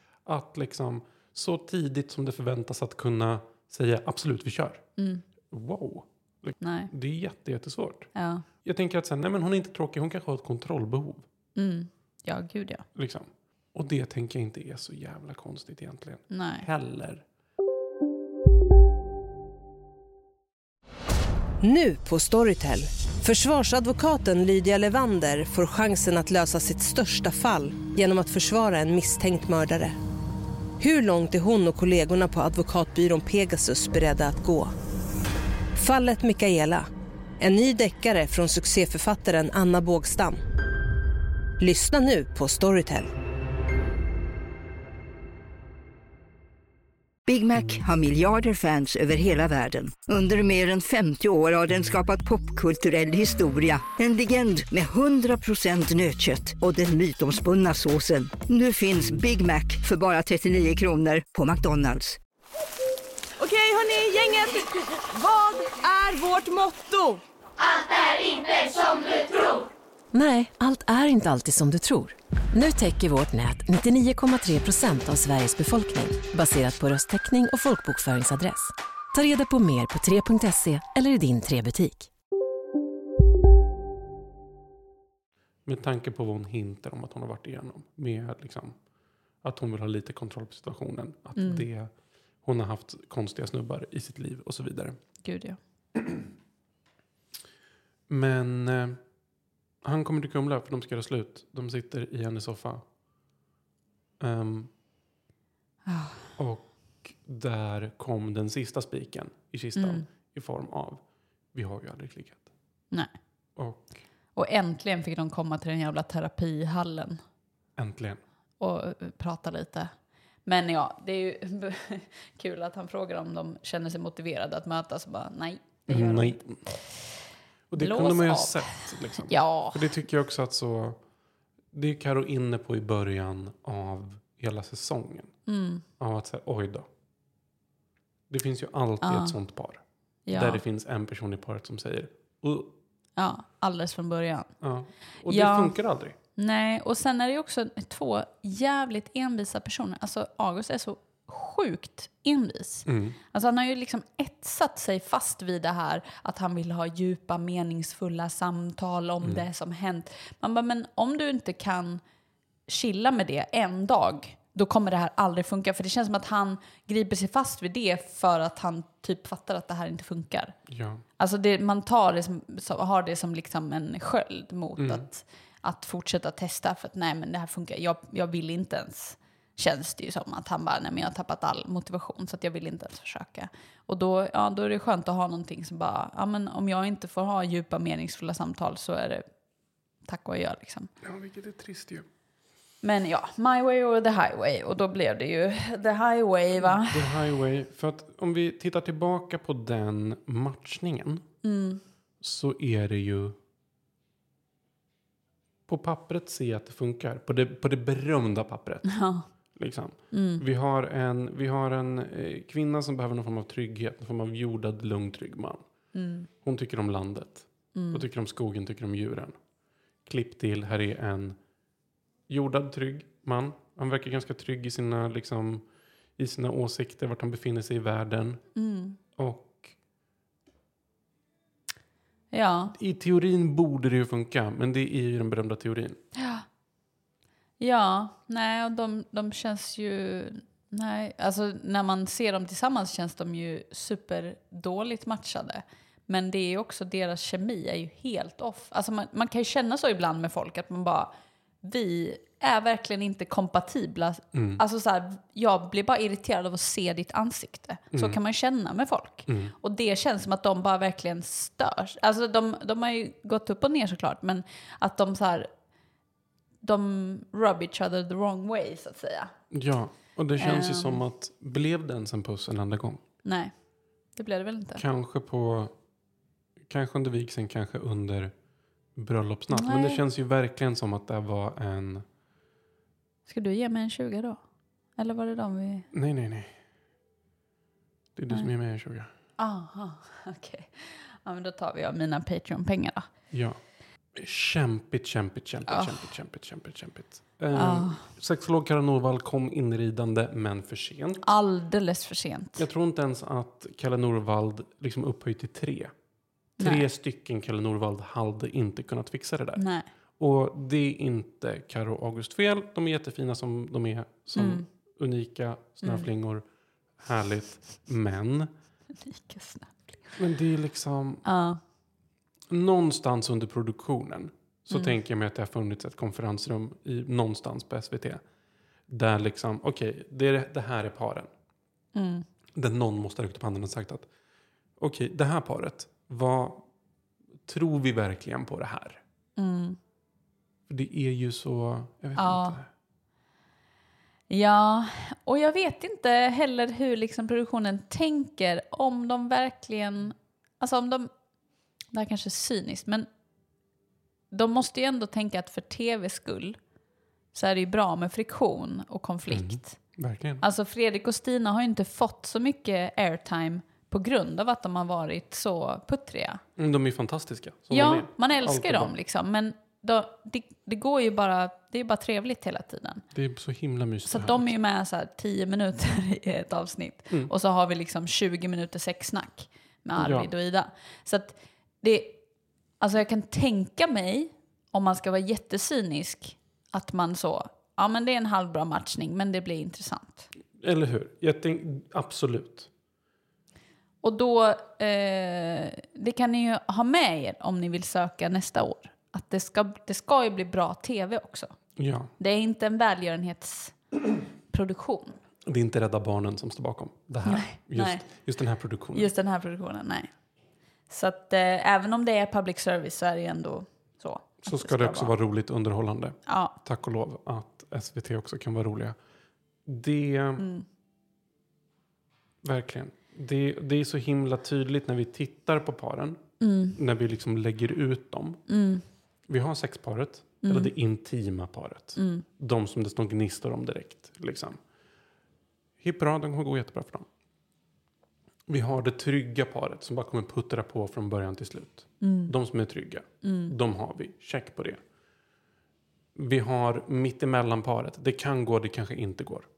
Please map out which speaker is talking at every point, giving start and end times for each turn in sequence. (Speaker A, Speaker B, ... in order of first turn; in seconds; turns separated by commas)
Speaker A: 0.2-4.8, Speaker B: 5.0-5.2, Speaker A: 5.5-8.1, Speaker B: 6.6-6.9, Speaker B: 8.1-8.4, Speaker A: 8.6-11.2, Speaker B: 11.6-12.8, Speaker A: 12.9-17.2, Speaker B: 16.3-16.7, Speaker C: 21.6-29.9, Speaker C: 30.8-34.7, Speaker C: 35.7-36.9, Speaker C: 37.4-40.4, Speaker C: 41.6-43.1, Speaker D: 47.3-62.2, Speaker E: 63.4-67.2, Speaker E: 68.2-69.1, Speaker F: 70.1-82.1, Speaker A: 85.7-88.7, Speaker A: 89.4-91.9, Speaker B: 91.3-91.7, Speaker A: 92.4-95.0, Speaker B: 95.2-95.6, Speaker A: 98.1-99.0, Speaker A: 99.8-102.8, Speaker A: 104.2-104.7, Speaker B: 105.8-106.2, Speaker A: 106.4-111.0, Speaker B: 109.8-110.1, Speaker A: 111.5-112.5, Speaker A: 113.6-114.0, Speaker B: 114.3-117.2, Speaker A: 117.8-118.2, Speaker B: 118.6-119.9, Speaker B: 120.4-127.1, Speaker A: 125.9-126.7, Speaker A: 127.7-131.0, Speaker B: 127.7-129.9, Speaker A: 131.7-135.3, Speaker B: 135.5-135.8, Speaker A: 136.0-136.9, Speaker A: 138.3-142.7, Speaker B: 139.0-139.3, Speaker B: 140.3-140.6, Speaker B: 143.2-144.5, Speaker A: 144.6-146.2, Speaker B: 145.2-145.8, Speaker B: 146.4-162.0, Speaker A: 152.8-153.2, Speaker B: 162.7-170.5, Speaker A: 170.7-171.0, Speaker B: 171.2-189.2, Speaker A: 174.8-175.1, Speaker B: 190.0-190.9, Speaker A: 191.0-192.1, Speaker B: 192.8-197.2, Speaker A: 196.6-201.2, Speaker B: 201.4-201.8, Speaker A: 202.2-203.3, Speaker A: 205.7-208.9, Speaker B: 208.8-209.3, Speaker A: 209.5-215.6, Speaker B: 210.1-210.4, Speaker B: 215.9-216.3, Speaker A: 216.4-219.3, Speaker B: 217.7-218.0, Speaker A: 220.1-221.4, Speaker A: 222.3-225.6, Speaker A: 226.2-228.4, Speaker B: 228.6-229.0, Speaker A: 229.2-229.8, Speaker B: 232.3-232.8, Speaker A: 232.8-236.0, Speaker B: 236.1-236.4, Speaker B: 237.6-265.5, Speaker A: 254.3-254.6, Speaker A: 257.9-258.2, Speaker A: 259.3-259.5, Speaker B: 266.6-269.3, Speaker A: 269.5-273.0, Speaker B: 270.4-271.0, Speaker B: 273.2-273.5, Speaker B: 274.1-274.8, Speaker A: 274.8-275.7, Speaker A: 276.7-278.3, Speaker A: 278.9-282.0, Speaker B: 279.5-280.0, Speaker B: 283.2-284.4, Speaker B: 285.0-285.9, Speaker A: 285.9-286.5, Speaker A: 288.1-289.1, Speaker B: 289.4-293.1, Speaker A: 293.3-293.6, Speaker A: 294.1-301.2, Speaker B: 295.7-296.0, Speaker B: 297.5-298.0, Speaker B: 301.2-302.6, Speaker A: 302.6-305.9, Speaker B: 306.6-306.9, Speaker A: 306.6-309.6, Speaker B: 309.6-309.9, Speaker A: 310.2-316.4, Speaker B: 314.3-314.6, Speaker B: 315.8-316.1, Speaker A: 317.0-318.5, Speaker B: 319.0-319.8, Speaker A: 320.2-321.2, Speaker B: 321.2-321.6, Speaker A: 322.5-328.2, Speaker A: 328.9-331.3, Speaker B: 331.9-332.2, Speaker A: 332.5-334.1, Speaker A: 334.8-336.6, Speaker A: 337.4-339.0, Speaker B: 339.4-339.8, Speaker A: 340.7-342.6, Speaker B: 342.1-342.6, Speaker B: 344.3-351.1, Speaker B: 351.9-353.1, Speaker B: 354.3-356.6, Speaker B: 357.3-359.8, Speaker A: 359.3-360.4, Speaker B: 360.4-366.4, Speaker A: 366.6-368.9, Speaker B: 367.7-373.0, Speaker A: 373.1-374.5, Speaker B: 374.1-382.2, Speaker A: 380.0-380.3, Speaker B: 382.8-390.3, Speaker A: 390.6-392.7, Speaker B: 394.0-401.5, Speaker A: 401.8-402.1, Speaker B: 402.2-403.8, Speaker B: 404.5-405.2, Speaker A: 405.4-409.1, Speaker B: 407.3-408.1, Speaker B: 408.9-410.1, Speaker B: 410.9-415.1, Speaker A: 414.4-418.9, Speaker B: 416.3-416.6, Speaker A: 419.7-420.4, Speaker B: 420.4-420.6, Speaker A: 422.4-426.2, Speaker B: 426.4-426.8, Speaker A: 426.8-428.4, Speaker B: 428.5-428.8, Speaker A: 429.3-434.6, Speaker B: 430.4-430.7, Speaker B: 431.9-432.2, Speaker A: 435.8-437.1, Speaker A: 438.5-444.8, Speaker B: 442.0-442.3, Speaker B: 443.2-443.5, Speaker A: 446.1-449.5